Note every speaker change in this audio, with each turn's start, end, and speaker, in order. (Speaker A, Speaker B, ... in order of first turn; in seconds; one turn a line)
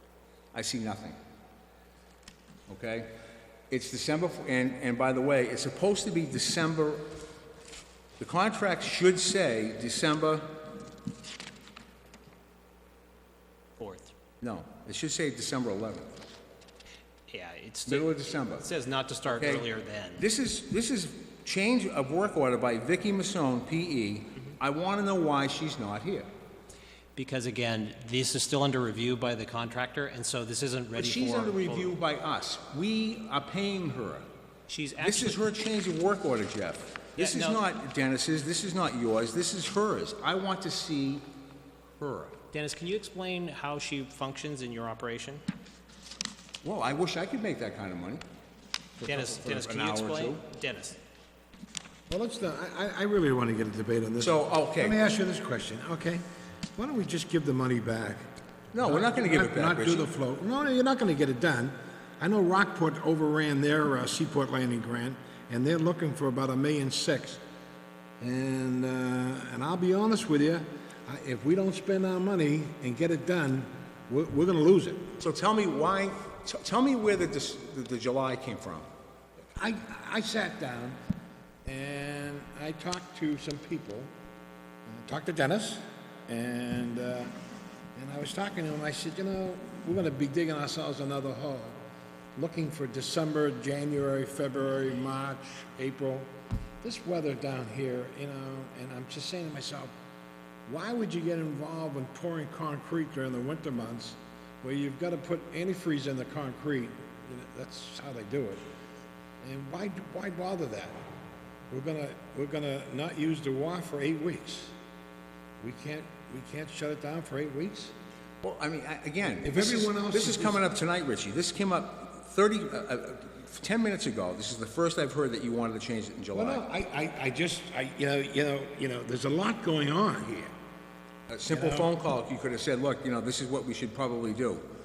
Speaker A: 0.5-1.2
Speaker A: 2.7-3.1
Speaker A: 3.7-7.1
Speaker A: 8.2-10.6
Speaker B: 13.8-14.1
Speaker A: 14.4-16.2
Speaker B: 17.3-20.2
Speaker A: 17.9-18.7
Speaker A: 19.2-19.7
Speaker A: 20.2-26.3
Speaker B: 27.1-32.0
Speaker A: 30.9-34.3
Speaker B: 34.7-35.4
Speaker A: 35.0-41.2
Speaker B: 37.2-37.6
Speaker A: 42.0-42.4
Speaker B: 42.5-45.4
Speaker A: 46.6-48.2
Speaker A: 49.0-50.4
Speaker B: 49.0-51.0
Speaker C: 52.1-56.2
Speaker A: 54.2-55.0
Speaker C: 56.8-58.2
Speaker A: 58.7-60.1
Speaker C: 58.8-67.4
Speaker C: 68.2-75.1
Speaker A: 75.2-78.9
Speaker C: 79.5-81.0
Speaker C: 81.6-84.1
Speaker C: 84.8-87.3
Speaker C: 87.9-91.8
Speaker C: 92.3-96.3
Speaker C: 96.8-99.9
Speaker C: 100.7-108.7
Speaker C: 109.4-111.0
Speaker C: 111.7-114.7
Speaker C: 115.6-117.9
Speaker A: 118.4-126.7
Speaker C: 119.4-120.6
Speaker C: 126.3-130.5
Speaker A: 131.3-134.6
Speaker C: 131.5-131.9